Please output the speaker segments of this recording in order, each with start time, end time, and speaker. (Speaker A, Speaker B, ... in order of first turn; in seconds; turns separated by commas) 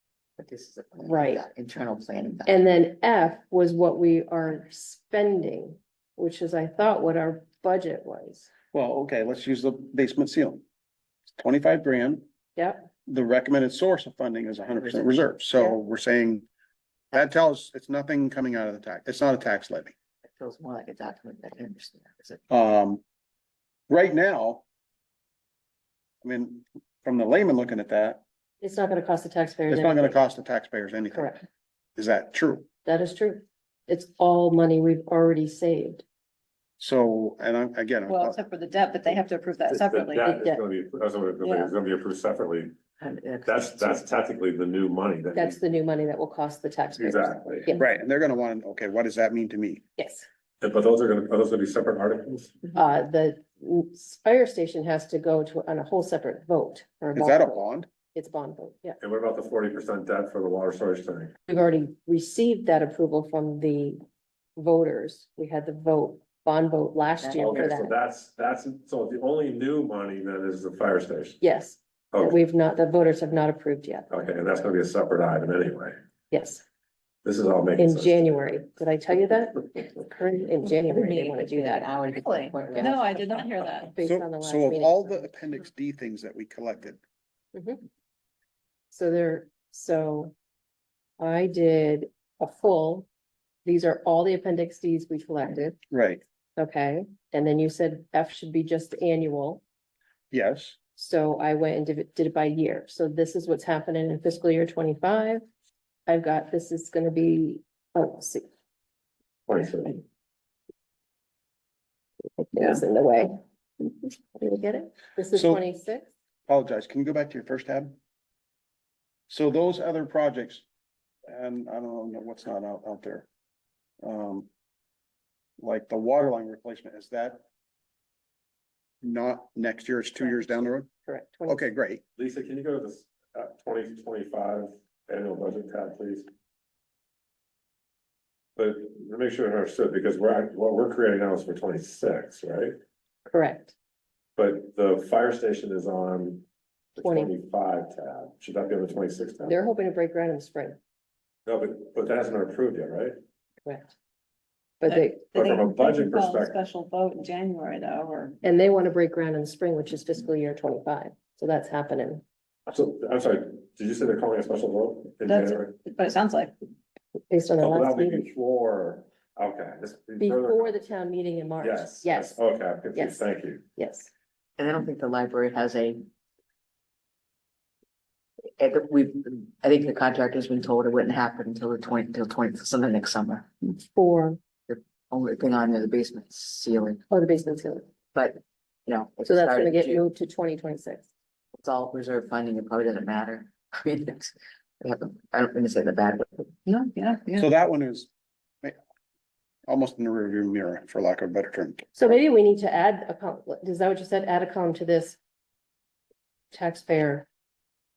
Speaker A: 0.4-2.5, Speaker B: 1.0-1.5, Speaker B: 2.5-8.5, Speaker C: 8.7-10.6, Speaker C: 11.4-12.3, Speaker B: 12.6-12.9, Speaker C: 13.1-16.5, Speaker A: 14.8-15.3, Speaker C: 17.1-19.9, Speaker A: 20.2-22.5, Speaker C: 22.5-23.0, Speaker C: 23.9-24.6, Speaker C: 26.2-28.2, Speaker B: 28.6-30.2, Speaker C: 29.7-31.4, Speaker B: 31.1-31.4, Speaker C: 32.0-32.7, Speaker B: 32.8-36.0, Speaker C: 36.8-38.4, Speaker D: 38.1-40.5, Speaker E: 39.7-42.7, Speaker B: 40.2-40.6, Speaker D: 41.4-41.7, Speaker A: 43.0-44.1, Speaker E: 43.5-45.6, Speaker B: 45.3-47.9, Speaker E: 47.0-47.7, Speaker C: 47.8-49.8, Speaker B: 50.0-50.3, Speaker E: 50.6-52.5, Speaker B: 52.7-59.0, Speaker C: 57.1-57.9, Speaker E: 59.0-61.3, Speaker B: 61.5-64.0, Speaker B: 64.6-68.0, Speaker A: 67.2-67.7, Speaker E: 67.4-71.4, Speaker B: 71.4-74.1, Speaker E: 72.1-72.4, Speaker E: 74.1-76.0, Speaker B: 76.3-76.7, Speaker E: 77.2-78.2, Speaker B: 77.8-81.9, Speaker A: 80.7-83.1, Speaker D: 82.2-83.9, Speaker B: 83.9-85.3, Speaker C: 84.0-87.0, Speaker B: 87.5-87.8, Speaker B: 88.9-90.3, Speaker B: 91.2-93.1, Speaker B: 93.7-95.8, Speaker C: 95.9-96.2, Speaker B: 96.6-99.6, Speaker C: 100.3-100.8, Speaker B: 101.0-105.4, Speaker B: 106.1-108.5, Speaker E: 109.5-110.0, Speaker B: 112.4-113.4, Speaker B: 114.3-116.1, Speaker C: 115.3-115.6, Speaker C: 116.5-118.0, Speaker C: 119.3-120.6, Speaker C: 121.3-123.3, Speaker C: 124.0-124.5, Speaker C: 125.6-127.4, Speaker C: 129.0-130.9, Speaker B: 130.2-131.7, Speaker C: 131.5-132.0, Speaker E: 132.2-136.3, Speaker E: 138.6-142.8, Speaker B: 143.3-143.8, Speaker E: 144.4-149.6, Speaker B: 147.0-147.3, Speaker B: 149.5-150.8, Speaker E: 151.5-153.2, Speaker B: 153.7-153.9, Speaker B: 154.8-155.3, Speaker D: 154.9-158.3, Speaker E: 155.3-156.5, Speaker B: 158.4-162.2, Speaker E: 162.7-165.8, Speaker D: 165.3-166.5, Speaker B: 167.3-168.3, Speaker E: 167.6-170.8, Speaker B: 170.2-172.4, Speaker E: 171.6-173.6, Speaker B: 172.9-174.1, Speaker A: 174.6-176.1, Speaker A: 178.6-183.5, Speaker B: 183.6-184.4, Speaker A: 184.7-187.0, Speaker B: 187.1-187.9, Speaker A: 188.1-190.0, Speaker B: 189.2-191.1, Speaker A: 191.5-197.4, Speaker D: 196.8-197.4, Speaker C: 197.4-198.1, Speaker C: 199.7-201.9, Speaker B: 201.9-205.2, Speaker B: 206.5-207.3